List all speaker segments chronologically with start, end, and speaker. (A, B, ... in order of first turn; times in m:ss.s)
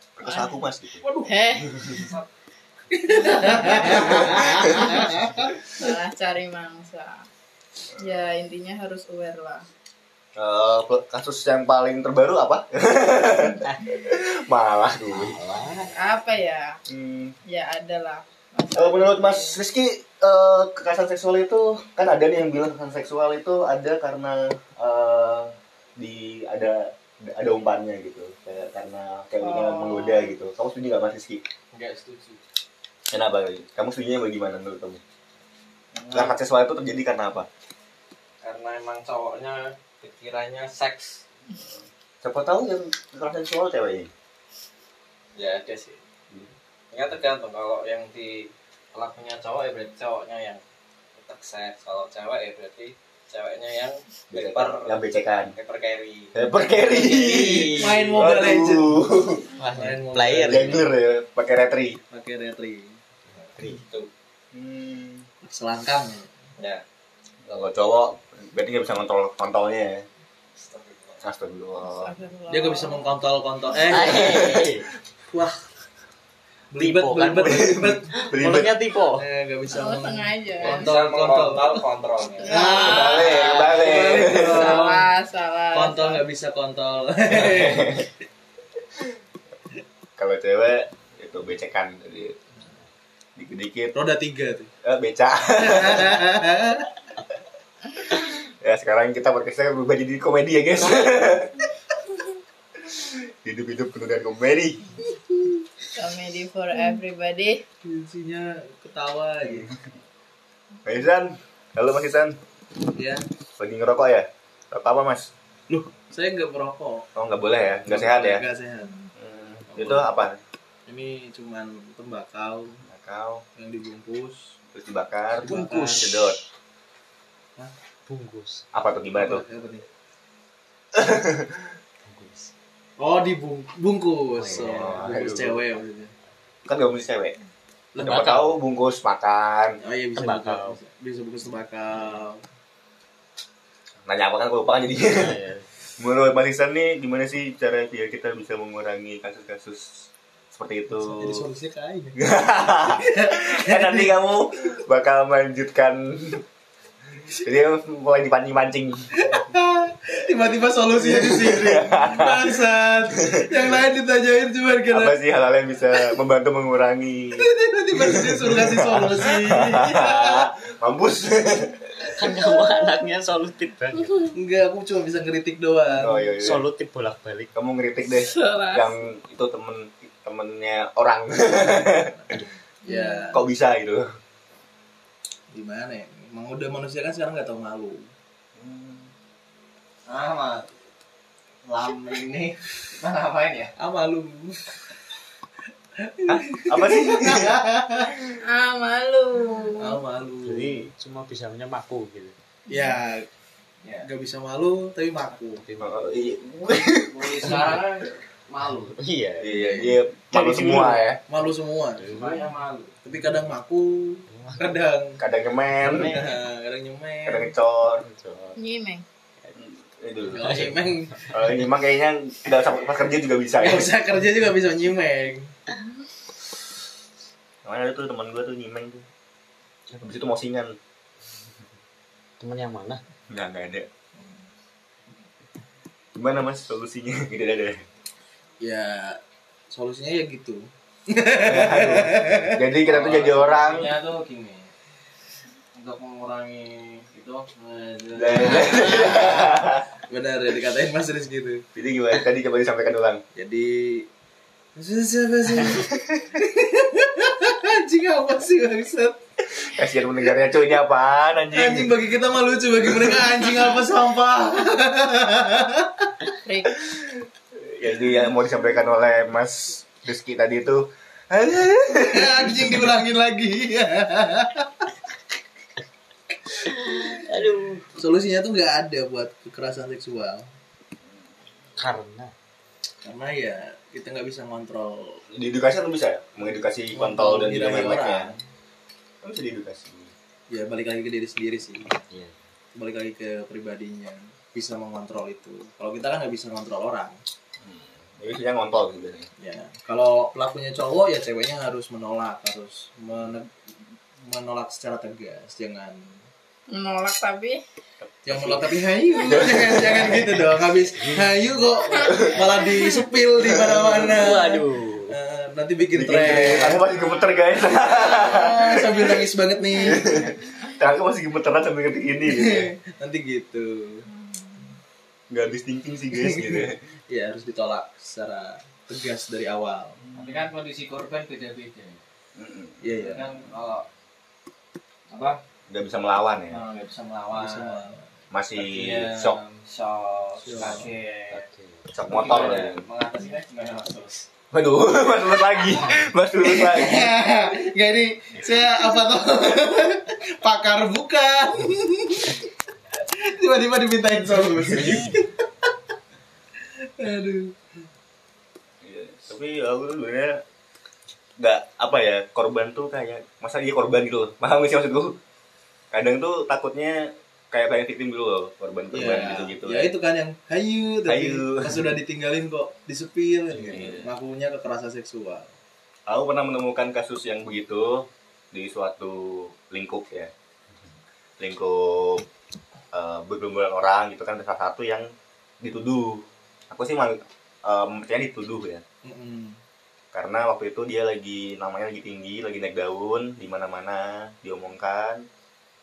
0:00.2-0:01.0 A
0:00.2-0:02.1 B
0:01.0-0:01.3 C
0:01.7-0:02.0 A
0:01.9-0:02.2 D
0:02.9-0:05.9 C
0:03.1-0:07.2 B
0:03.9-0:04.9 A
0:08.0-0:09.6 B
0:10.4-0:15.4 A
0:15.1-0:15.9 E
0:15.9-0:16.8 B
0:16.9-0:17.4 A
0:17.4-0:19.6 B
0:18.7-0:31.4 A
0:29.4-0:30.3 B
0:31.7-0:32.4 D
0:33.1-0:35.0 A
0:36.0-0:36.3 D
0:36.1-0:37.5 A
0:38.4-0:41.2 D
0:42.2-0:44.1 A
0:45.4-0:46.0 D
0:46.9-0:50.6 D
0:51.1-0:56.3 D
0:54.3-0:55.5 A
0:56.3-0:59.4 A
0:56.8-0:58.3 E
0:57.7-0:59.0 C
0:59.6-1:00.8 E
0:59.7-1:00.8 C
1:00.5-1:02.0 A
1:02.1-1:03.0 C
1:03.6-1:03.8 E
1:03.7-1:04.1 D
1:04.5-1:05.2 A
1:05.4-1:06.3 C
1:07.5-1:10.0 A
1:10.6-1:11.2 D
1:11.2-1:12.1 A
1:11.8-1:13.1 B
1:12.5-1:14.6 C
1:13.8-1:14.9 E
1:15.3-1:15.6 C
1:16.7-1:18.2 C
1:16.8-1:19.2 E
1:17.4-1:18.8 A
1:19.2-1:21.8 C
1:19.7-1:20.9 B
1:20.6-1:23.2 D
1:22.4-1:26.2 B
1:22.4-1:25.1 C
1:22.7-1:24.8 A
1:25.7-1:28.1 C
1:27.3-1:28.1 A
1:30.2-1:32.4 A
1:33.4-1:33.9 A
1:33.9-1:34.7 C
1:34.8-1:36.2 A
1:35.6-1:36.9 C
1:38.6-1:41.6 A
1:42.9-1:45.0 A
1:45.9-1:47.6 B
1:47.8-1:49.7 C
1:49.4-1:49.7 A
1:50.8-1:52.4 A
1:52.9-1:53.2 C
1:53.6-1:55.3 A
1:55.7-1:57.1 C
1:57.1-1:58.4 A
1:57.8-1:59.0 C
1:59.1-2:00.4 A
1:59.7-2:00.0 C
2:00.9-2:02.8 C
2:02.8-2:03.4 A
2:03.6-2:04.4 C
2:04.7-2:06.4 A
2:05.4-2:06.4 E
2:05.4-2:06.0 C
2:08.1-2:08.6 E
2:08.7-2:09.4 A
2:09.1-2:09.8 C
2:10.9-2:11.7 A
2:12.0-2:12.5 E
2:13.0-2:16.1 C
2:14.4-2:15.2 E
2:14.5-2:15.6 A
2:16.6-2:17.4 A
2:17.9-2:18.6 E
2:18.0-2:19.8 A
2:19.8-2:22.4 C
2:20.2-2:20.8 E
2:24.0-2:25.3 A
2:25.0-2:25.7 E
2:26.0-2:31.4 A
2:30.9-2:32.2 C
2:32.2-2:36.4 A
2:33.0-2:34.2 C
2:37.4-2:39.1 A
2:39.2-2:45.2 C
2:40.9-2:42.6 A
2:43.2-2:43.6 A
2:44.9-2:52.1 A
2:47.4-2:50.5 C
2:52.1-2:54.3 E
2:54.3-2:56.3 C
2:56.0-2:56.6 A
2:56.4-2:57.5 E
2:57.5-3:02.1 A
2:58.1-2:58.9 B
3:02.1-3:03.3 C
3:02.8-3:03.4 B
3:03.3-3:04.1 A
3:05.5-3:08.0 C
3:08.6-3:09.1 A
3:10.1-3:10.7 D
3:11.6-3:13.7 D
3:13.8-3:14.9 C
3:16.0-3:18.1 C
3:16.3-3:17.6 A
3:18.4-3:20.0 B
3:19.8-3:20.8 C
3:20.4-3:22.3 E
3:22.7-3:23.0 B
3:22.7-3:23.3 C
3:23.8-3:24.1 D
3:24.0-3:25.6 C
3:25.6-3:26.1 E
3:25.8-3:27.5 A
3:27.1-3:29.0 D
3:29.0-3:29.8 E
3:29.4-3:31.2 A
3:29.5-3:29.9 C
3:30.3-3:31.0 E
3:30.6-3:32.0 C
3:32.0-3:32.5 E
3:32.0-3:33.0 D
3:33.0-3:35.2 C
3:34.3-3:34.8 E
3:35.2-3:36.2 A
3:35.8-3:37.5 C
3:37.2-3:38.0 A
3:38.0-3:38.6 E
3:38.6-3:39.0 B
3:39.6-3:40.7 A
3:40.2-3:41.4 C
3:40.3-3:41.3 E
3:41.3-3:43.9 A
3:43.6-3:45.5 C
3:47.6-3:49.0 A
3:50.0-3:50.8 A
3:52.4-3:53.0 E
3:53.3-3:53.9 A
3:56.1-3:57.8 A
3:58.6-3:59.2 C
3:59.7-4:02.6 C
4:01.4-4:03.9 A
4:02.8-4:04.7 D
4:05.7-4:09.4 D
4:08.1-4:09.8 A
4:08.7-4:09.4 C
4:10.1-4:11.6 C
4:11.7-4:13.2 A
4:13.3-4:14.1 C
4:14.8-4:19.2 C
4:19.7-4:21.9 A
4:21.5-4:26.1 C
4:26.4-4:26.8 B
4:26.8-4:32.8 A
4:32.0-4:34.7 C
4:36.7-4:37.8 E
4:38.0-4:40.5 C
4:41.8-4:42.3 E
4:43.0-4:45.2 C
4:45.3-4:48.3 A
4:46.9-4:48.4 C
4:49.2-4:50.1 A
4:50.5-4:52.0 C
4:52.1-4:52.4 E
4:52.7-4:57.2 C
4:57.6-4:59.3 A
4:59.4-5:03.5 C
5:04.2-5:06.2 C
5:06.7-5:07.6 B
5:08.2-5:16.8 C
5:08.3-5:08.6 A
5:09.2-5:10.4 A
5:11.0-5:11.4 E
5:11.8-5:13.0 B
5:12.0-5:12.4 A
5:13.4-5:14.1 A
5:14.0-5:15.2 E
5:15.9-5:22.7 A
5:18.2-5:20.2 C
5:19.8-5:20.3 B
5:22.2-5:24.0 C
5:24.1-5:24.7 B
5:25.3-5:26.8 A
5:26.1-5:30.0 C
5:30.1-5:32.0 D
5:32.4-5:33.0 A
5:32.8-5:33.3 C
5:33.0-5:33.9 D
5:35.1-5:35.4 D
5:35.7-5:36.6 A
5:36.5-5:37.8 D
5:37.3-5:38.0 C
5:38.3-5:39.4 A
5:38.5-5:41.4 D
5:40.4-5:40.9 C
5:41.3-5:41.9 E
5:41.9-5:42.8 A
5:42.0-5:44.3 D
5:44.5-5:47.2 A
5:46.4-5:52.5 C
5:53.0-5:55.3 C
5:57.0-5:57.6 C
5:58.8-6:00.4 A
6:01.4-6:05.2 A
6:05.9-6:09.9 A
6:08.9-6:15.5 C
6:11.0-6:11.9 A
6:13.6-6:14.1 A
6:16.1-6:20.3 A
6:21.4-6:22.2 A
6:22.9-6:25.1 A
6:25.6-6:28.8 A
6:29.0-6:29.6 C
6:30.1-6:35.2 A